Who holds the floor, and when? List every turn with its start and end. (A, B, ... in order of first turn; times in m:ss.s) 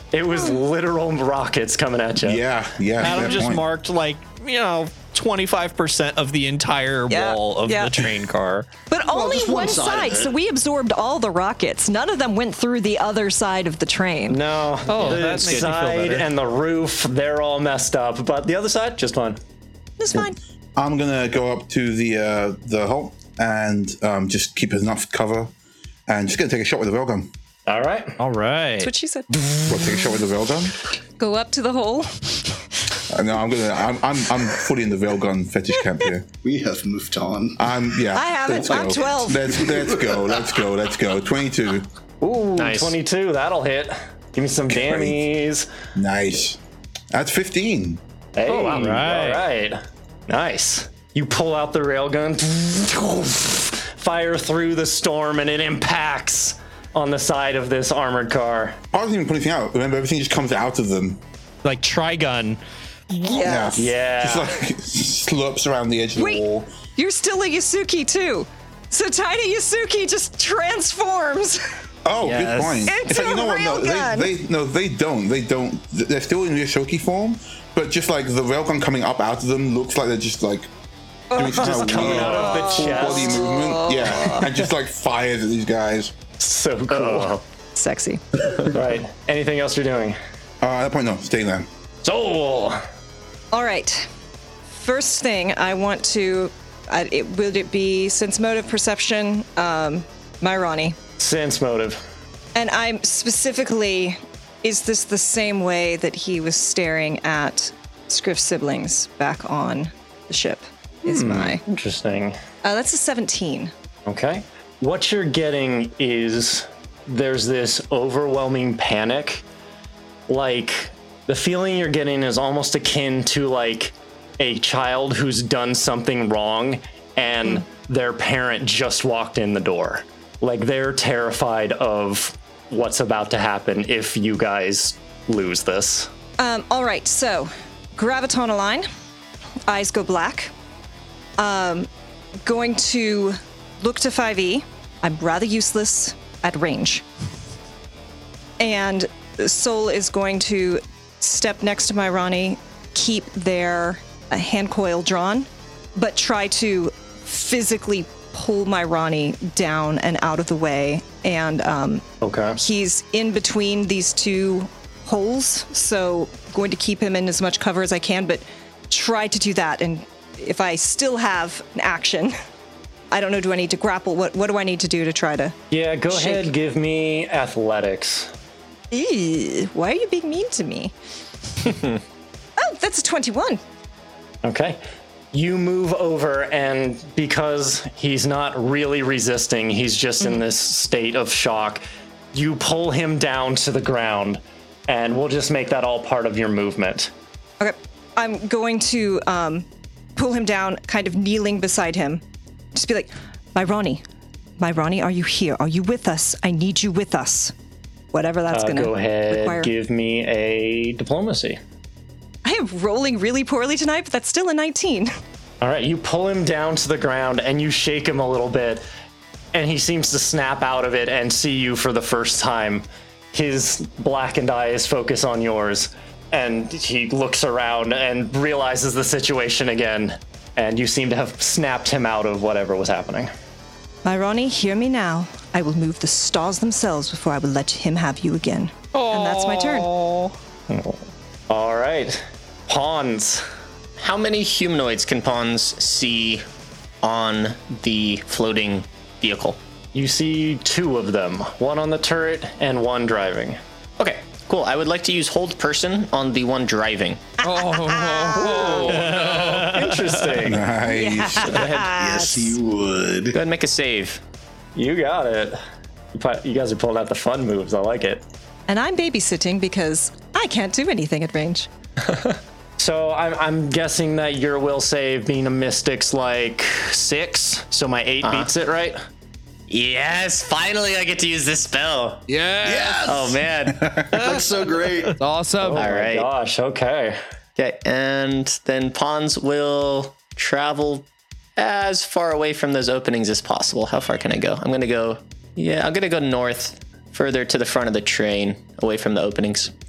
0:00.1-0:02.4 A
0:02.2-0:03.7 B
0:03.0-0:08.7 C
0:07.1-0:08.0 D
0:08.9-0:14.4 D
0:09.0-0:10.3 E
0:14.3-0:19.4 A
0:14.9-0:16.3 C
0:20.0-0:20.4 D
0:20.8-0:25.5 B
0:26.1-0:27.3 B
0:27.7-0:28.2 A
0:28.2-0:28.9 C
0:28.8-0:29.3 D
0:29.7-0:30.7 B
0:31.2-0:32.5 D
0:33.1-0:36.3 B
0:36.4-0:37.7 E
0:37.6-0:41.9 B
0:38.1-0:39.6 D
0:38.7-0:40.4 E
0:42.2-0:45.7 A
0:42.6-0:43.0 F
0:44.7-0:45.2 B
0:46.0-0:46.6 B
0:47.1-0:48.0 B
0:48.4-0:58.8 A
0:48.5-0:49.5 C
0:58.9-1:01.2 B
1:01.6-1:02.6 C
1:03.2-1:03.8 D
1:03.4-1:06.7 B
1:03.8-1:04.5 A
1:06.2-1:06.4 D
1:07.0-1:11.6 D
1:12.0-1:20.7 B
1:12.2-1:12.9 C
1:12.8-1:14.3 D
1:21.3-1:24.5 D
1:21.3-1:26.2 B
1:21.4-1:23.4 A
1:26.4-1:27.4 A
1:26.9-1:27.4 F
1:27.8-1:28.2 D
1:28.6-1:30.2 A
1:30.6-1:31.7 B
1:32.0-1:32.8 A
1:33.5-1:34.1 D
1:34.7-1:41.0 D
1:41.2-1:42.0 A
1:42.6-1:51.6 D
1:51.1-1:52.4 A
1:52.6-1:53.7 D
1:54.1-1:59.4 A
2:00.3-2:16.1 A
2:16.4-2:18.9 D
2:19.7-2:20.5 D
2:21.4-2:21.9 D
2:22.5-2:27.0 D
2:28.6-2:42.0 D
2:42.2-2:42.6 A
2:42.6-2:52.4 D
2:53.1-2:55.6 D
2:55.7-2:58.3 A
2:56.1-2:56.5 D
2:58.9-3:00.9 D
3:02.6-3:03.6 D
3:04.4-3:04.8 A
3:05.3-3:17.1 A
3:17.6-3:22.2 D
3:22.7-3:24.0 D
3:24.6-3:27.5 D
3:28.1-3:29.7 D
3:28.5-3:31.6 A
3:32.4-3:35.1 D
3:35.6-3:38.8 A
3:39.5-3:53.3 A
3:54.0-3:59.9 D
3:59.0-4:00.3 C
4:00.7-4:03.4 A
4:04.0-4:06.4 F
4:07.0-4:09.6 F
4:09.9-4:13.6 A
4:14.0-4:17.2 F
4:17.4-4:19.6 G
4:17.5-4:18.9 D
4:18.4-4:20.7 A
4:18.9-4:20.4 C
4:20.4-4:21.7 B
4:20.9-4:22.6 D
4:21.4-4:21.9 A
4:21.6-4:23.4 E
4:23.3-4:24.2 F
4:24.8-4:25.6 A
4:26.1-4:28.2 A
4:28.7-4:31.7 D
4:32.8-4:39.0 A
4:38.2-4:38.5 F
4:39.7-4:42.2 F
4:42.3-4:43.2 G
4:42.6-4:43.4 E
4:43.0-4:44.0 F
4:43.8-4:44.1 B
4:44.2-4:45.2 E
4:44.2-4:44.4 C
4:45.2-4:45.9 G
4:45.6-4:47.2 A
4:45.7-4:46.3 F
4:47.6-4:51.1 F
4:51.6-4:59.7 F